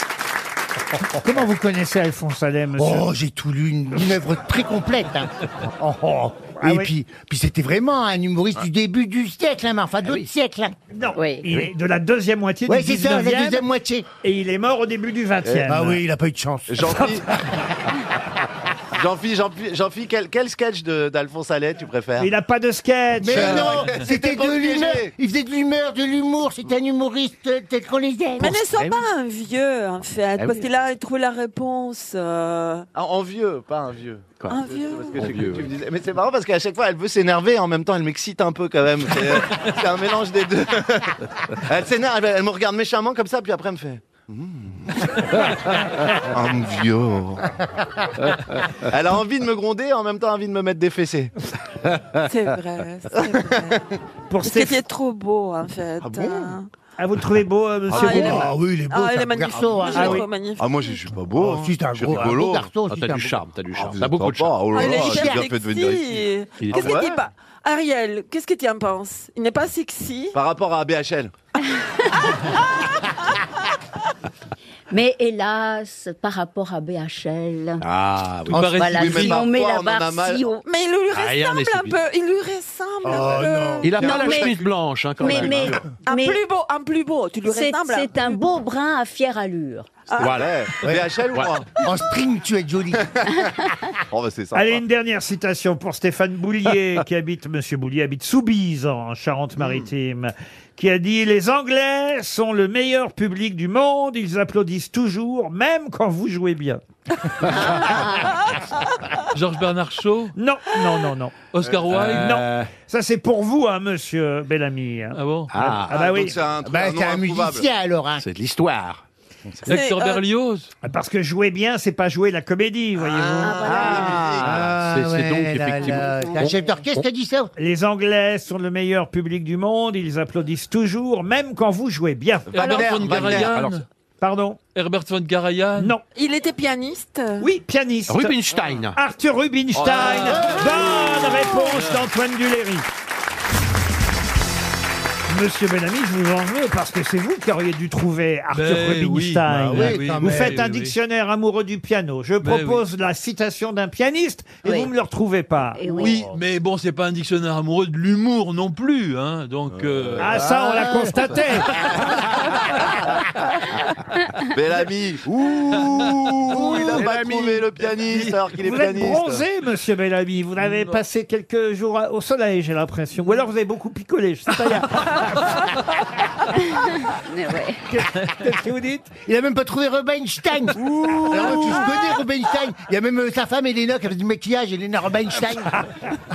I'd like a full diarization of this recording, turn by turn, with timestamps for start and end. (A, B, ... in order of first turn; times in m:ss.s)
0:01.2-0:03.1 A
0:02.8-0:10.8 B
0:06.6-0:06.9 A
0:10.9-0:13.6 A
0:11.1-0:11.4 C
0:12.6-0:14.0 B
0:14.2-0:16.0 A
0:15.5-0:17.2 B
0:16.7-0:17.3 D
0:18.9-0:22.3 D
0:22.2-0:23.9 A
0:23.2-0:28.6 B
0:23.2-0:25.1 D
0:28.4-0:32.9 E
0:28.7-0:29.0 F
0:30.4-0:30.7 F
0:32.9-0:45.2 D
0:34.5-0:35.2 E
0:35.2-0:35.7 F
0:46.3-0:47.5 D
0:48.9-0:51.3 D
0:52.2-0:53.8 E
0:54.3-0:54.8 A
0:54.4-0:56.7 E
0:57.0-0:58.5 A
0:57.9-1:00.2 B
0:57.9-1:01.2 E
0:59.9-1:00.3 A
1:00.6-1:02.7 D
1:01.4-1:03.4 B
1:02.8-1:04.6 F
1:03.7-1:07.2 D
1:04.7-1:10.4 E
1:04.8-1:05.4 B
1:06.6-1:07.0 F
1:10.3-1:11.3 D
1:14.9-1:17.8 C
1:17.8-1:18.7 F
1:18.5-1:19.4 G
1:18.5-1:20.5 D
1:18.7-1:20.6 C
1:20.6-1:24.5 E
1:21.1-1:22.0 F
1:23.0-1:24.0 B
1:23.8-1:25.9 F
1:24.0-1:24.6 C
1:25.2-1:26.4 C
1:26.0-1:28.2 E
1:27.4-1:29.9 C
1:30.1-1:31.7 D
1:30.1-1:30.4 E
1:30.2-1:30.6 F
1:30.8-1:31.1 B
1:31.3-1:31.6 F
1:31.8-1:33.1 B
1:33.1-1:34.8 D
1:34.5-1:46.8 A
1:49.3-1:50.3 G
1:50.4-1:51.4 A
1:51.5-1:52.4 G
1:51.9-1:52.7 F
1:52.1-1:55.2 A
1:55.1-1:55.5 G
1:55.5-1:56.0 F
1:55.9-1:57.7 D
1:55.9-1:56.4 A
1:56.6-1:58.2 B
1:58.2-1:59.0 F
1:59.6-2:00.2 E
1:59.7-2:00.7 G
2:00.8-2:03.9 A
2:03.0-2:04.7 D
2:03.4-2:04.3 C
2:03.8-2:07.5 B
2:03.9-2:07.0 F
2:05.7-2:06.8 C
2:07.6-2:12.8 A
2:12.5-2:13.6 D
2:12.5-2:13.8 G
2:13.0-2:13.8 F
2:14.2-2:14.6 A
2:14.7-2:15.9 G
2:15.8-2:16.0 A
2:16.1-2:17.5 E
2:17.4-2:18.4 A
2:18.1-2:19.0 F
2:18.9-2:22.8 A
2:19.7-2:21.4 D
2:21.6-2:22.0 G
2:25.3-2:36.2 A
2:28.5-2:31.0 G
2:29.5-2:30.6 B
2:32.4-2:32.8 G
2:34.6-2:34.9 C
2:35.8-2:36.3 C
2:36.0-2:40.4 G
2:39.8-2:40.2 D
2:40.2-2:41.7 A
2:40.4-2:41.4 B
2:44.5-2:49.4 D
2:45.4-2:47.6 F
2:46.5-2:47.3 B
2:48.6-2:55.7 A
2:56.8-2:57.8 C
2:57.9-2:59.1 A
2:59.3-3:05.7 B
3:00.8-3:02.0 A